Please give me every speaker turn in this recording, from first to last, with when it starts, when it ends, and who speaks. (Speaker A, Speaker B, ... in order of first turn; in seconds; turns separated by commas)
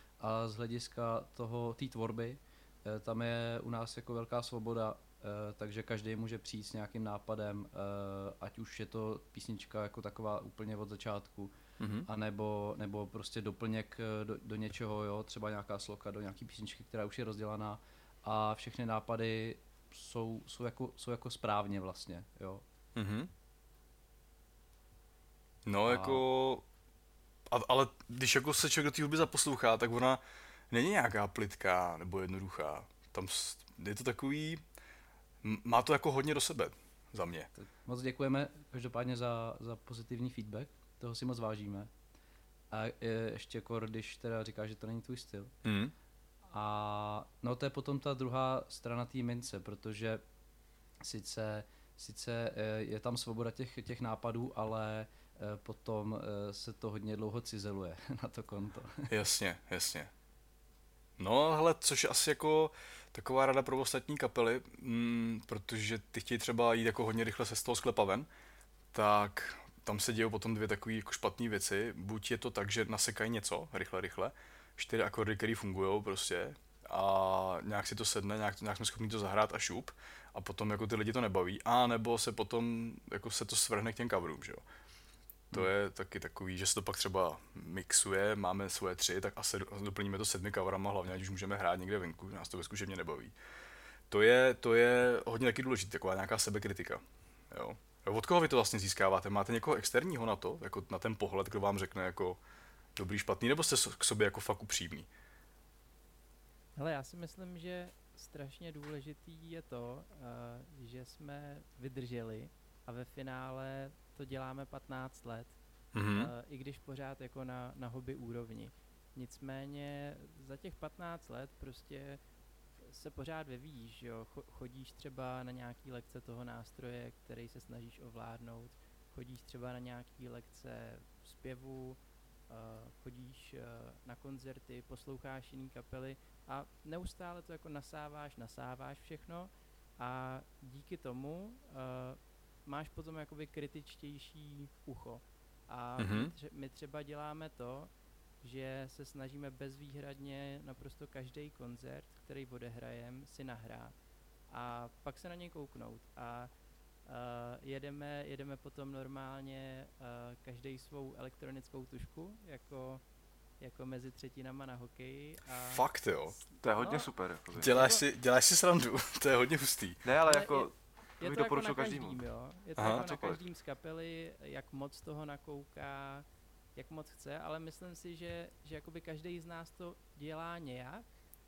Speaker A: 0.2-11.5, Speaker B: 11.8-12.1, Speaker A: 12.1-22.6, Speaker B: 22.9-23.3, Speaker B: 25.6-26.6, Speaker A: 25.9-26.3, Speaker B: 27.5-34.6, Speaker B: 35.4-37.5, Speaker A: 37.5-41.9, Speaker A: 42.7-45.5, Speaker B: 45.6-45.9, Speaker A: 46.5-50.2, Speaker A: 51.0-59.1, Speaker B: 59.1-60.1, Speaker B: 61.2-68.3, Speaker B: 68.9-84.6, Speaker B: 85.5-93.3, Speaker B: 94.1-102.4, Speaker B: 103.0-105.1, Speaker C: 106.8-115.6, Speaker B: 116.0-116.3, Speaker C: 116.1-122.2, Speaker C: 122.8-147.9, Speaker B: 146.0-146.3, Speaker C: 148.4-153.9, Speaker C: 154.5-156.5, Speaker C: 157.1-163.0, Speaker C: 163.6-165.8, Speaker B: 165.7-166.4, Speaker D: 166.6-167.9, Speaker C: 166.7-167.1, Speaker B: 167.5-170.0, Speaker C: 167.7-168.0, Speaker D: 170.1-172.2, Speaker C: 170.2-181.1, Speaker B: 172.8-173.0, Speaker D: 172.8-173.4